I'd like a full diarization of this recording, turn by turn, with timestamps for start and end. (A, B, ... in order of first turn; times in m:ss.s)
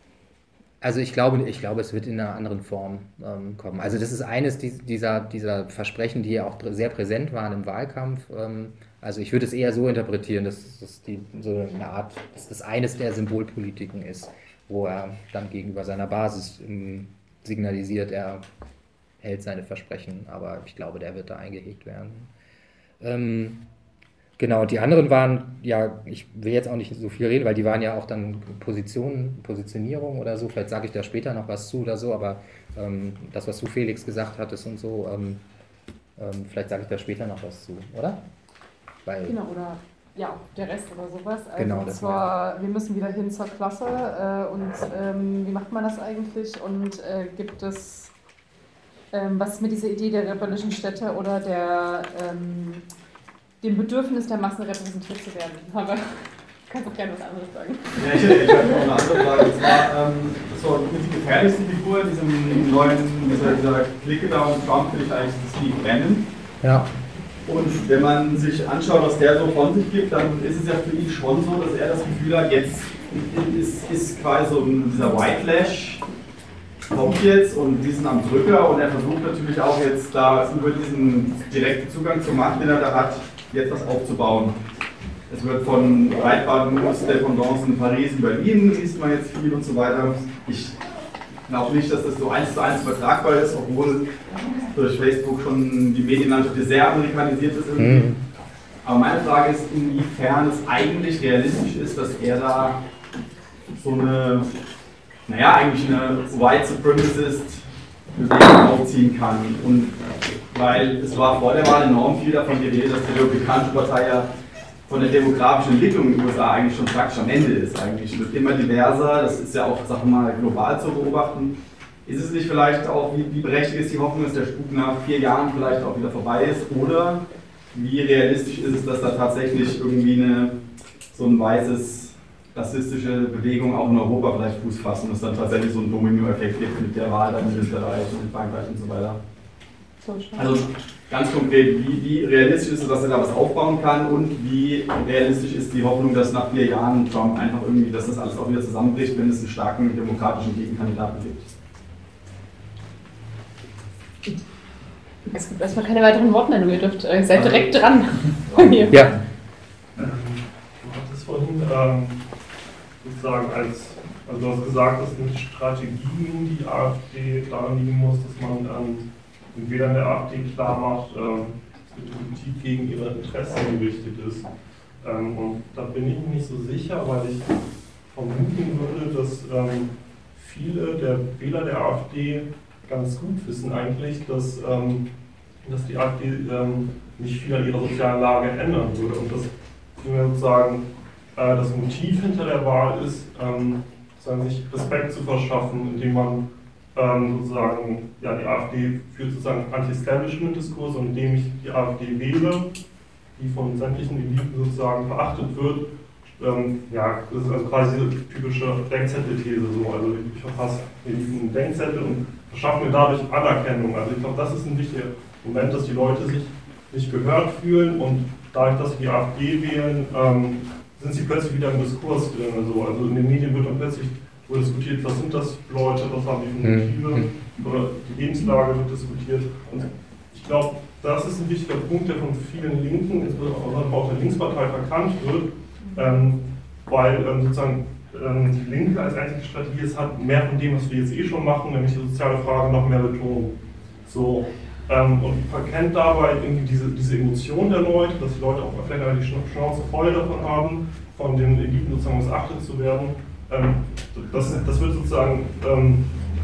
0:00.8-0:18.4 A
0:19.2-0:22.3 A
0:23.0-0:23.7 A
0:24.4-0:35.4 A
0:36.2-0:38.2 A
0:39.0-0:39.3 A
0:39.2-0:48.1 B
0:41.6-0:42.3 A
0:49.1-0:52.8 B
0:53.6-0:59.7 B
0:58.0-1:06.3 C
1:06.6-1:06.9 A
1:07.5-1:16.0 C
1:16.9-1:24.6 C
1:25.3-1:30.8 C
1:31.5-1:34.1 C
1:34.7-1:38.1 C
1:37.8-1:38.2 A
1:38.8-1:42.8 C
1:43.8-1:44.5 C
1:45.2-1:47.6 C
1:48.1-1:54.3 C
1:54.9-2:10.6 C
2:11.1-2:19.2 C
2:20.0-2:20.4 B
2:20.4-2:31.5 C
2:35.3-2:39.0 B
2:38.9-2:39.2 A
2:40.0-2:42.2 D
2:43.0-2:54.5 D
2:55.0-2:57.5 D
2:58.1-3:05.0 D
3:05.6-3:10.8 D
3:11.3-3:16.4 D
3:16.9-3:22.7 D
3:23.4-4:16.0 D
3:46.6-3:47.3 A